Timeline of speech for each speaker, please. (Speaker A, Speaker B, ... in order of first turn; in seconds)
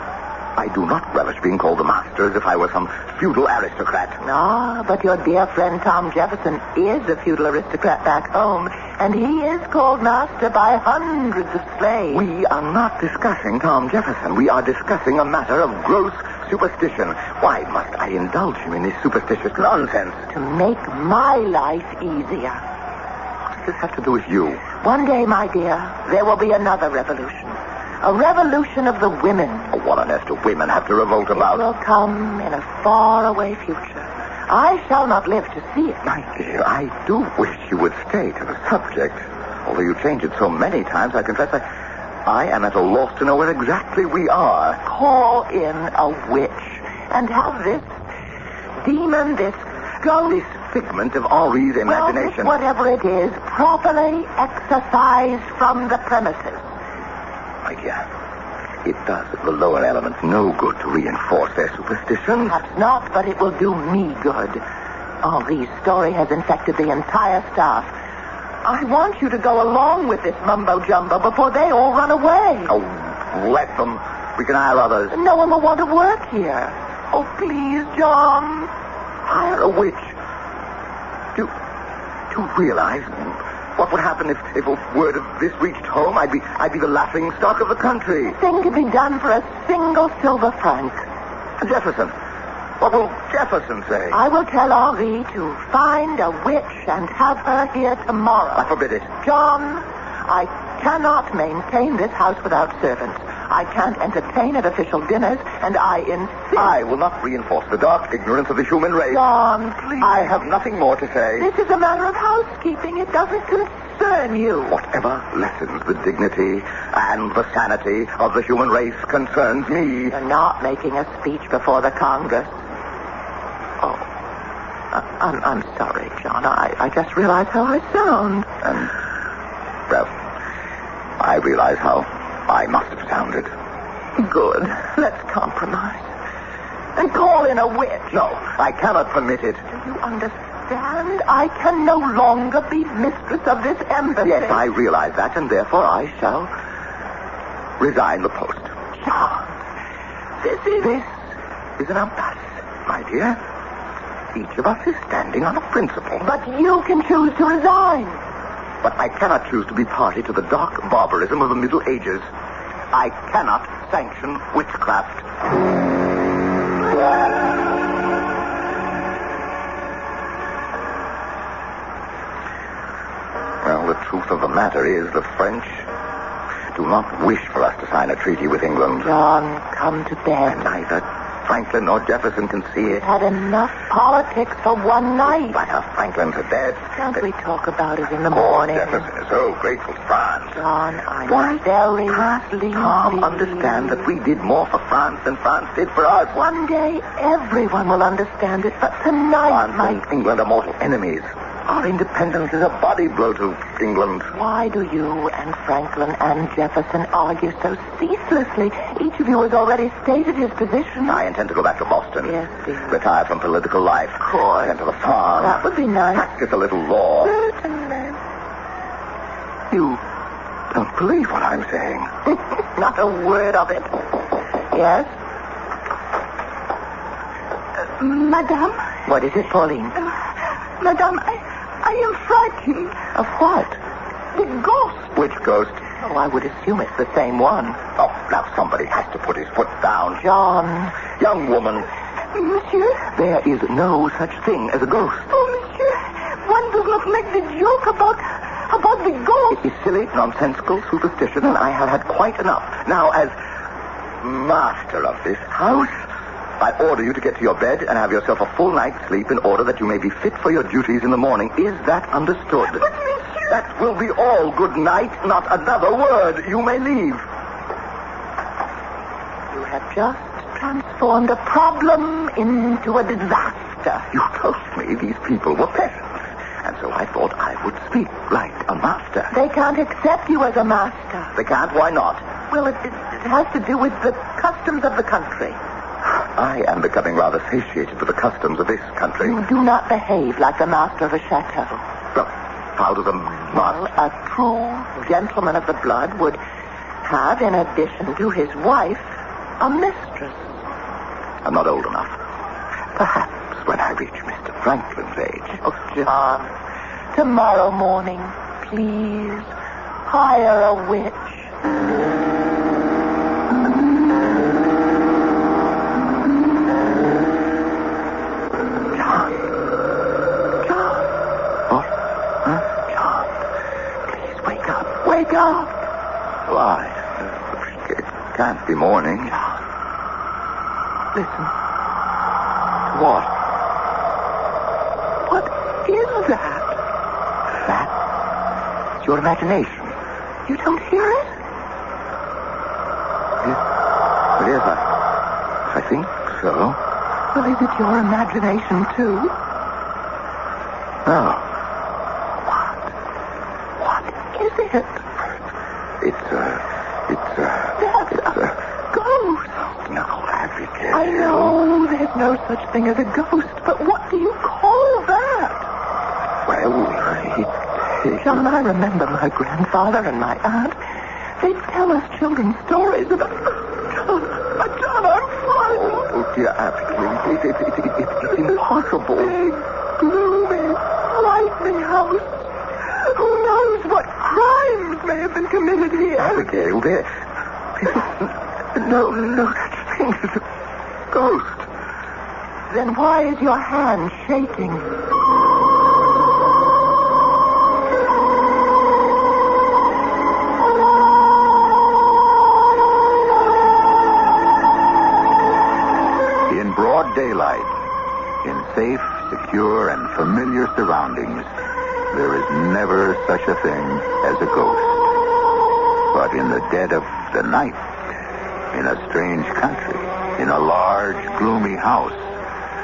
Speaker A: 0.6-4.2, 12.1-20.2, 23.5-24.6, 29.7-31.7, 36.0-41.6, 42.3-44.8, 50.2-52.5, 57.6-58.0, 58.9-62.6, 72.7-75.2, 79.3-80.1, 82.3-88.4, 91.6-92.1, 92.8-94.2, 98.6-99.1, 106.6-109.2, 110.0-111.5, 114.7-120.1, 128.6-128.9, 131.2-133.5, 138.1-139.6, 144.2-146.5, 147.8-148.7, 150.8-151.1, 151.8-153.4, 154.3-156.3, 158.8-162.3, 162.9-165.2, 173.6-175.9, 176.7-179.1, 180.5-183.0, 185.3-187.0, 188.3-190.6, 192.1-196.4, 199.5-204.3, 211.1-212.3, 212.9-215.6, 216.2-217.3, 220.7-222.1, 235.1-235.8, 238.0-240.2, 241.1-241.9, 243.1-245.3, 249.5-253.3, 254.2-256.0, 256.6-262.9, 263.5-267.2, 274.1-276.1, 276.6-279.3, 281.4-282.2, 286.4-289.4, 292.1-293.9, 301.4-302.2, 303.0-305.6, 326.5-329.4, 332.9-333.3, 337.6-337.9, 339.0-340.0, 344.4-344.9, 345.7-346.8, 351.1-351.4, 356.0-357.8, 359.8-361.6, 366.5-368.4, 375.7-379.4, 386.2-387.1, 387.8-390.4, 391.1-391.7
Speaker B: 4.2-12.2, 20.3-22.6, 24.8-29.7, 31.3-36.1, 44.8-48.0, 48.8-50.4, 51.9-56.7, 62.4-64.6, 65.2-67.9, 68.6-72.8, 75.1-78.7, 88.3-91.0, 94.1-98.7, 99.2-106.7, 109.1-110.4, 111.4-114.8, 120.1-122.6, 124.9-128.5, 134.2-136.1, 137.0-138.2, 139.7-144.6, 149.1-149.4, 150.4-150.9, 156.2-158.2, 179.0-180.7, 182.9-185.6, 187.0-189.1, 190.5-193.5, 196.3-200.0, 204.3-211.2, 212.2-213.0, 214.2-214.8, 215.4-216.3, 217.2-218.2, 222.3-224.2, 224.7-225.1, 229.1-230.0, 233.1-233.8, 236.0-237.8, 240.2-241.0, 269.5-274.1, 279.3-281.4, 282.5-285.6, 289.2-291.8, 293.5-296.4, 297.0-300.5, 305.6-306.5, 307.1-309.5, 310.1-311.5, 319.0-319.3, 320.6-321.1, 324.4-325.7, 331.1-331.5, 335.3-336.8, 340.5-341.3, 347.3-349.3, 353.8-355.0, 357.8-359.6, 360.9-365.7, 368.2-370.8, 371.4-376.0, 379.2-386.5, 392.7-394.9
Speaker C: 228.0-228.8, 230.8-233.0, 234.3-235.1, 242.3-243.1, 245.3-249.6
Speaker D: 406.5-407.7, 408.4-411.5, 412.1-415.1, 416.1-417.8, 418.7-422.3